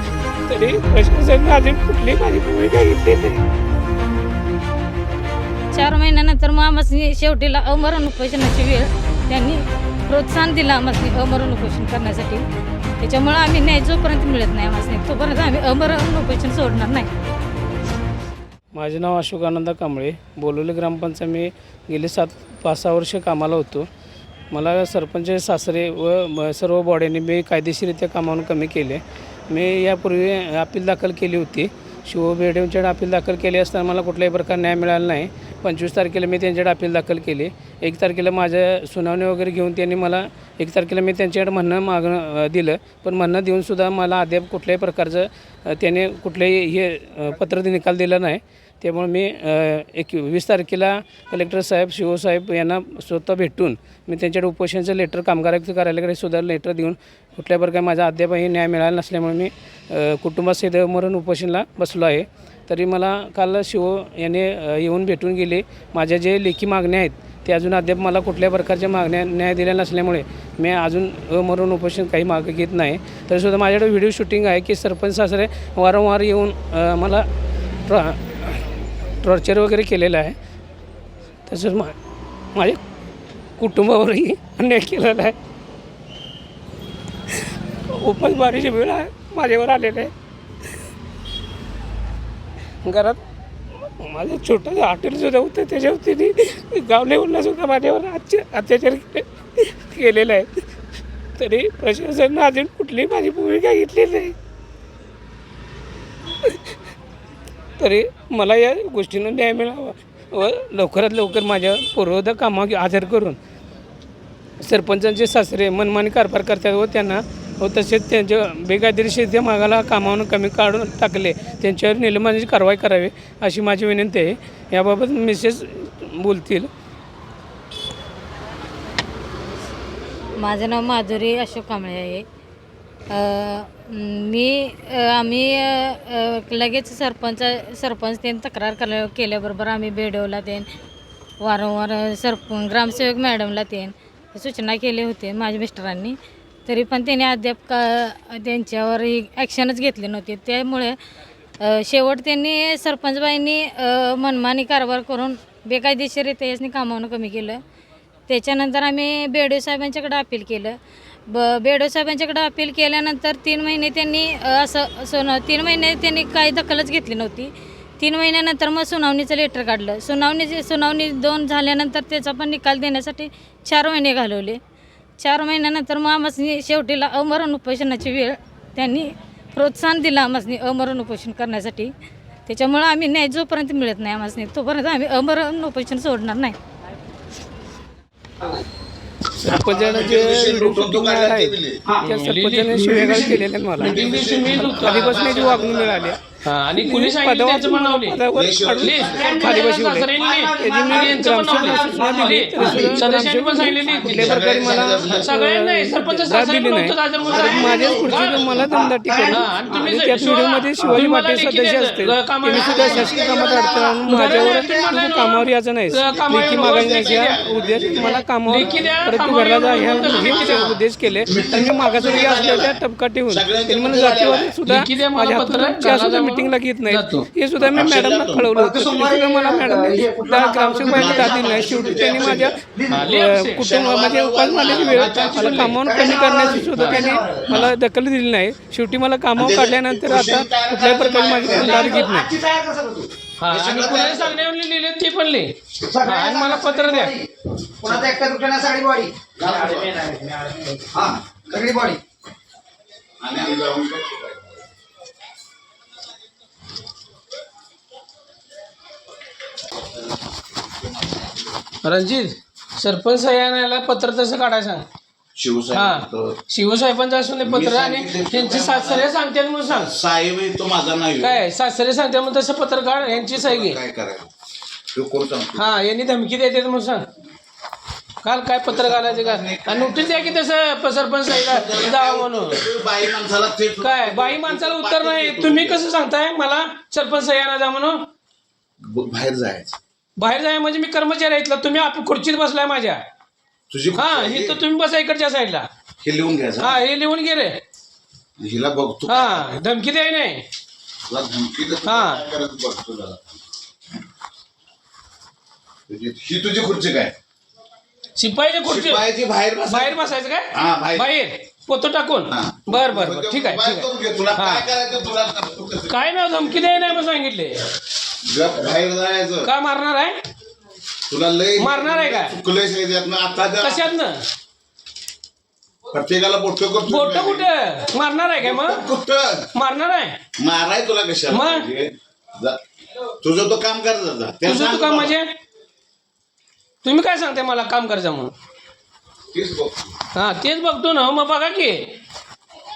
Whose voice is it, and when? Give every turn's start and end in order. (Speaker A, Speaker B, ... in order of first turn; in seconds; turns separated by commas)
Speaker A: 0.5-3.4, Speaker B: 5.7-12.4, Speaker B: 13.0-17.1, Speaker A: 18.7-23.9, Speaker A: 24.5-77.3, Speaker A: 77.9-78.6, Speaker A: 79.2-80.3, Speaker A: 81.5-82.0, Speaker A: 82.5-82.8, Speaker A: 83.6-85.3, Speaker A: 87.9-90.1, Speaker A: 92.8-93.2, Speaker A: 94.0-100.7, Speaker A: 101.4-104.3, Speaker A: 107.8-113.4, Speaker A: 114.6-126.7, Speaker B: 130.4-132.2, Speaker B: 133.1-140.7, Speaker B: 141.4-146.1, Speaker B: 146.7-150.9, Speaker B: 151.6-157.6, Speaker B: 158.3-160.8, Speaker B: 161.3-174.6, Speaker B: 175.2-181.9, Speaker B: 182.5-186.6, Speaker A: 189.4-194.0, Speaker C: 189.4-191.8, Speaker D: 192.0-195.7, Speaker E: 192.8-193.4, Speaker C: 193.8-196.2, Speaker A: 194.6-242.3, Speaker D: 196.4-198.2, Speaker C: 198.3-199.3, Speaker D: 198.8-208.5, Speaker E: 199.0-203.0, Speaker C: 202.6-202.9, Speaker C: 204.0-205.3, Speaker C: 207.2-208.6, Speaker E: 207.3-210.1, Speaker D: 209.3-213.3, Speaker C: 212.5-213.4, Speaker E: 212.5-215.3, Speaker D: 214.0-217.4, Speaker C: 215.9-218.2, Speaker E: 217.8-218.2, Speaker D: 218.4-220.8, Speaker C: 219.7-224.6, Speaker D: 224.6-227.3, Speaker C: 227.6-228.5, Speaker E: 228.5-233.1, Speaker C: 230.9-232.6, Speaker D: 232.9-233.7, Speaker C: 233.6-235.8, Speaker D: 234.6-235.8, Speaker E: 235.7-237.5, Speaker D: 236.7-237.1, Speaker C: 237.5-237.7, Speaker C: 239.3-241.9, Speaker E: 241.4-243.1, Speaker D: 241.5-242.1, Speaker D: 243.4-247.2, Speaker C: 243.5-244.4, Speaker E: 245.8-252.0, Speaker C: 249.4-250.0, Speaker C: 253.2-254.6, Speaker D: 261.8-264.9, Speaker C: 265.4-266.4, Speaker D: 265.7-269.9, Speaker C: 267.4-269.1, Speaker C: 269.7-271.5, Speaker D: 271.2-273.8, Speaker C: 273.0-274.3, Speaker C: 274.9-275.8, Speaker D: 275.6-277.1, Speaker D: 278.2-282.6, Speaker C: 278.7-280.4, Speaker C: 281.3-285.8, Speaker D: 283.8-288.1, Speaker C: 288.8-289.8, Speaker D: 290.2-293.0, Speaker C: 293.7-294.6, Speaker D: 294.0-295.7, Speaker C: 296.0-296.8, Speaker D: 296.6-297.6, Speaker C: 298.4-299.6, Speaker D: 299.1-300.4, Speaker C: 301.1-303.4, Speaker D: 301.8-302.2, Speaker C: 305.9-307.1, Speaker D: 308.2-309.0, Speaker C: 308.6-311.1, Speaker D: 309.7-314.7, Speaker C: 312.3-316.9, Speaker D: 315.9-317.6, Speaker C: 318.2-319.5, Speaker D: 319.4-320.2, Speaker C: 321.1-323.9, Speaker D: 321.6-322.4, Speaker D: 323.6-324.2, Speaker C: 325.9-327.5, Speaker D: 326.9-328.8, Speaker C: 328.4-329.5, Speaker D: 329.5-330.2, Speaker C: 330.4-335.2, Speaker D: 331.3-331.7, Speaker D: 334.4-335.3, Speaker D: 336.8-338.3, Speaker C: 339.3-339.9, Speaker D: 340.1-341.9